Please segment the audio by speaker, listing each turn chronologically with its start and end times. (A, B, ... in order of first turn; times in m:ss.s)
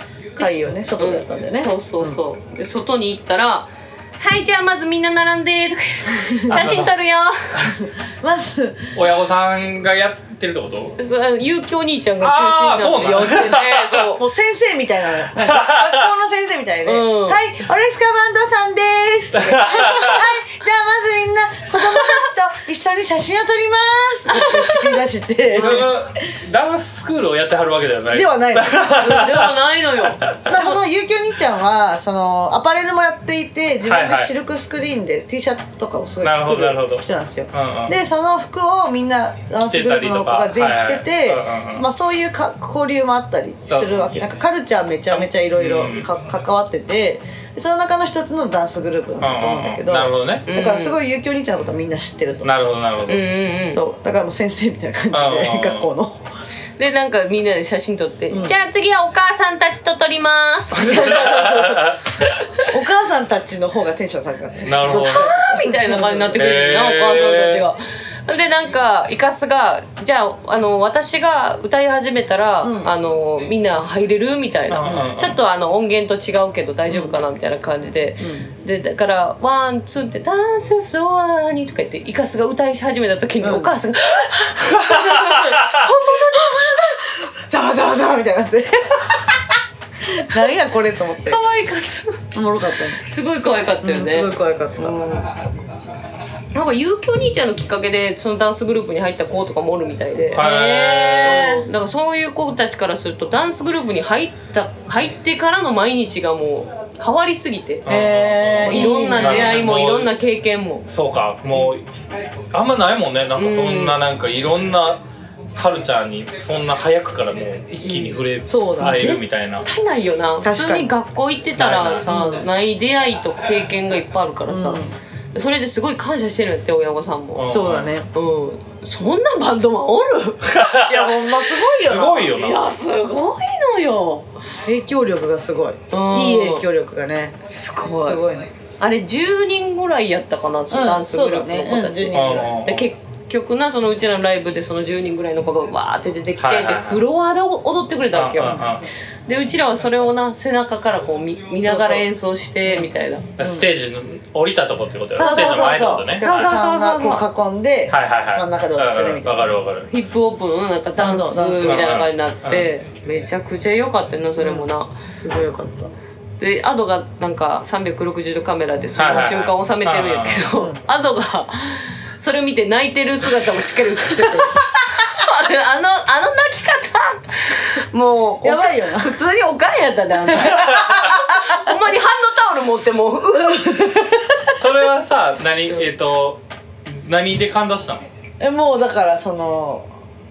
0:00.4-0:02.2 A
0:00.4-0:07.7 B
0:06.2-0:06.8 A
0:06.5-0:06.9 C
0:07.6-0:09.0 A
0:08.9-0:11.0 C
0:11.0-0:14.2 B
0:12.2-0:14.1 C
0:14.2-0:26.0 A
0:15.5-0:15.9 C
0:16.8-0:17.4 B
0:19.3-0:20.3 C
0:24.3-0:25.0 B
0:25.5-0:29.5 C
0:25.6-0:25.8 B
0:28.1-0:29.1 A
0:28.9-0:30.8 B
0:30.5-0:52.5 A
0:33.8-0:34.3 C
0:36.2-0:38.0 C
0:39.6-0:41.9 C
0:43.7-0:44.2 C
0:45.6-0:46.1 C
0:49.2-0:50.4 C
0:50.5-0:51.0 B
0:52.4-0:53.2 C
0:53.1-0:53.8 B
0:53.7-0:56.2 A
0:55.1-0:55.9 C
0:56.8-1:01.5 B
0:58.3-0:58.6 A
1:00.8-1:02.0 A
1:01.2-1:02.0 C
1:02.3-1:02.7 B
1:02.7-1:06.4 A
1:04.6-1:05.4 C
1:04.8-1:26.8 B
1:06.4-1:07.6 C
1:12.6-1:12.9 A
1:14.7-1:15.4 C
1:16.9-1:17.2 A
1:18.2-1:18.5 A
1:23.4-1:23.8 A
1:24.8-1:31.4 A
1:31.2-1:32.4 B
1:32.3-1:33.0 A
1:32.9-1:34.3 B
1:33.8-1:35.4 A
1:36.5-1:47.9 B
1:40.3-1:41.5 C
1:40.4-1:41.7 A
1:47.9-1:49.7 A
1:47.9-1:50.1 C
1:48.6-1:50.9 B
1:50.9-1:51.8 C
1:52.5-1:55.0 C
1:53.4-1:54.0 B
1:55.5-1:59.7 C
1:57.8-1:58.2 B
1:58.5-1:59.2 A
1:58.8-2:04.8 B
2:00.4-2:00.9 A
2:01.6-2:02.1 C
2:02.0-2:02.5 A
2:04.5-2:05.0 A
2:05.3-2:07.5 B
2:07.4-2:07.9 C
2:07.5-2:08.1 A
2:08.1-2:10.5 B
2:10.4-2:12.7 C
2:10.7-2:12.4 A
2:12.3-2:14.3 B
2:14.7-2:17.4 A
2:15.9-2:16.6 B
2:17.4-2:18.2 B
2:18.0-2:18.5 A
2:18.8-2:28.6 B
2:20.7-2:22.6 A
2:22.1-2:22.9 C
2:26.4-2:27.0 C
2:28.1-2:28.8 C
2:29.3-2:33.3 B
2:31.6-2:32.1 A
2:32.6-2:33.7 A
2:33.4-2:36.5 C
2:35.1-2:37.2 B
2:35.2-2:39.6 A
2:37.9-2:39.9 C
2:39.9-2:45.0 B
2:41.0-2:41.9 A
2:41.6-2:42.7 C
2:44.4-2:45.9 A
2:46.4-3:03.8 B
2:49.0-2:50.5 C
2:50.5-2:50.8 A
2:58.4-2:59.2 A
3:00.2-3:01.7 A
3:03.4-3:04.5 A
3:04.5-3:08.0 C
3:08.4-3:09.9 A